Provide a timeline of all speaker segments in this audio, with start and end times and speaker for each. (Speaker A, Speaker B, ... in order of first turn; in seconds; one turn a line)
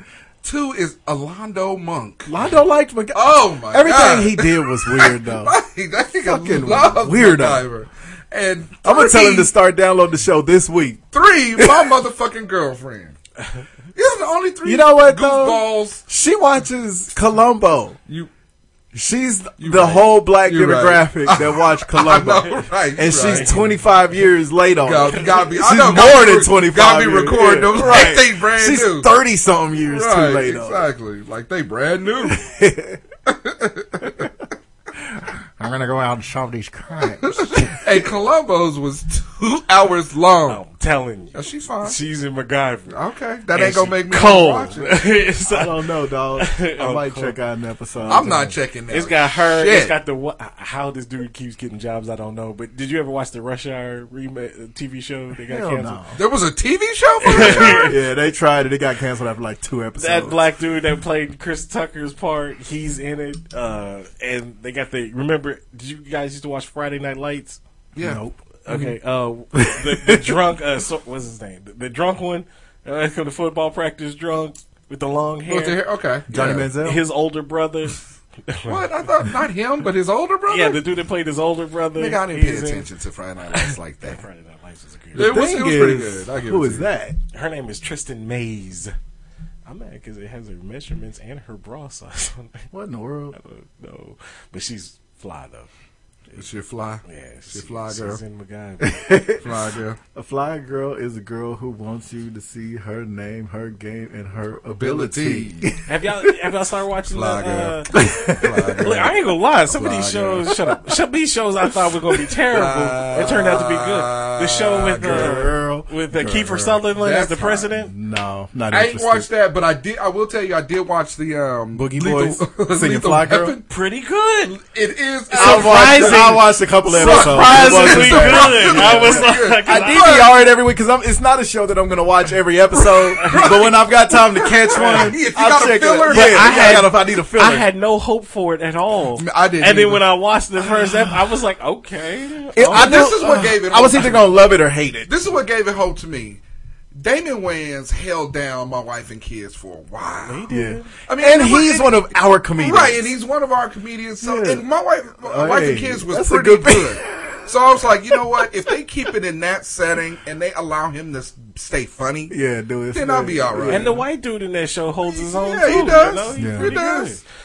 Speaker A: 0.4-2.3
Speaker B: 2.3-5.6
Speaker A: 3.1-9.5
Speaker B: 6.2-7.7
Speaker B: 8.8-11.0
Speaker A: 11.1-13.2
Speaker B: 11.6-11.9
Speaker A: 13.9-16.0
Speaker B: 14.6-18.0
Speaker B: 18.9-30.9
Speaker A: 19.6-23.7
Speaker C: 23.1-23.6
Speaker A: 24.8-29.1
Speaker A: 29.8-32.4
Speaker B: 32.3-33.0
Speaker A: 33.3-34.3
Speaker B: 35.1-38.1
Speaker A: 37.2-40.6
Speaker C: 40.5-43.0
Speaker A: 41.3-42.0
Speaker A: 42.9-45.0
Speaker C: 43.5-45.8
Speaker B: 45.5-48.6
Speaker C: 46.4-47.4
Speaker C: 48.0-48.3
Speaker A: 48.1-50.0
Speaker C: 48.9-56.0
Speaker B: 55.5-56.2
Speaker A: 56.2-57.9
Speaker C: 57.2-57.9
Speaker B: 57.3-60.4
Speaker C: 60.0-67.6
Speaker A: 67.9-68.2
Speaker B: 68.0-68.9
Speaker C: 68.7-75.8
Speaker B: 69.5-70.3
Speaker A: 75.5-76.7
Speaker B: 76.3-77.0
Speaker C: 76.4-78.8
Speaker A: 78.7-80.8
Speaker C: 80.5-82.9
Speaker A: 82.0-84.2
Speaker C: 83.5-85.4
Speaker A: 85.1-86.9
Speaker B: 85.2-87.2
Speaker C: 87.3-89.0
Speaker C: 89.7-92.7
Speaker B: 92.7-93.4
Speaker C: 93.3-95.7
Speaker A: 96.3-98.2
Speaker C: 97.0-99.0
Speaker B: 98.8-99.5
Speaker A: 99.4-100.0
Speaker B: 100.2-106.3
Speaker A: 104.7-105.7
Speaker C: 105.9-117.9
Speaker A: 107.1-110.5
Speaker B: 107.9-108.8
Speaker A: 112.5-115.5
Speaker B: 114.8-116.8
Speaker A: 117.0-117.7
Speaker B: 117.7-119.3
Speaker A: 118.7-123.7
Speaker B: 121.8-123.6
Speaker C: 123.7-124.6
Speaker A: 124.5-130.3
Speaker C: 125.3-130.2
Speaker B: 125.3-137.7
Speaker C: 133.2-133.6
Speaker A: 133.2-136.9
Speaker C: 134.7-135.2
Speaker C: 136.1-143.4
Speaker A: 139.2-140.1
Speaker B: 140.6-141.1
Speaker B: 142.6-145.2
Speaker A: 142.7-144.4
Speaker A: 145.1-146.4
Speaker A: 147.0-150.4
Speaker C: 150.2-150.9
Speaker B: 150.5-153.2
Speaker A: 151.1-162.4
Speaker B: 154.2-154.7
Speaker B: 155.2-158.7
Speaker B: 162.3-164.0
Speaker A: 162.9-164.0
Speaker C: 163.7-167.2
Speaker A: 165.1-167.2
Speaker B: 166.4-166.8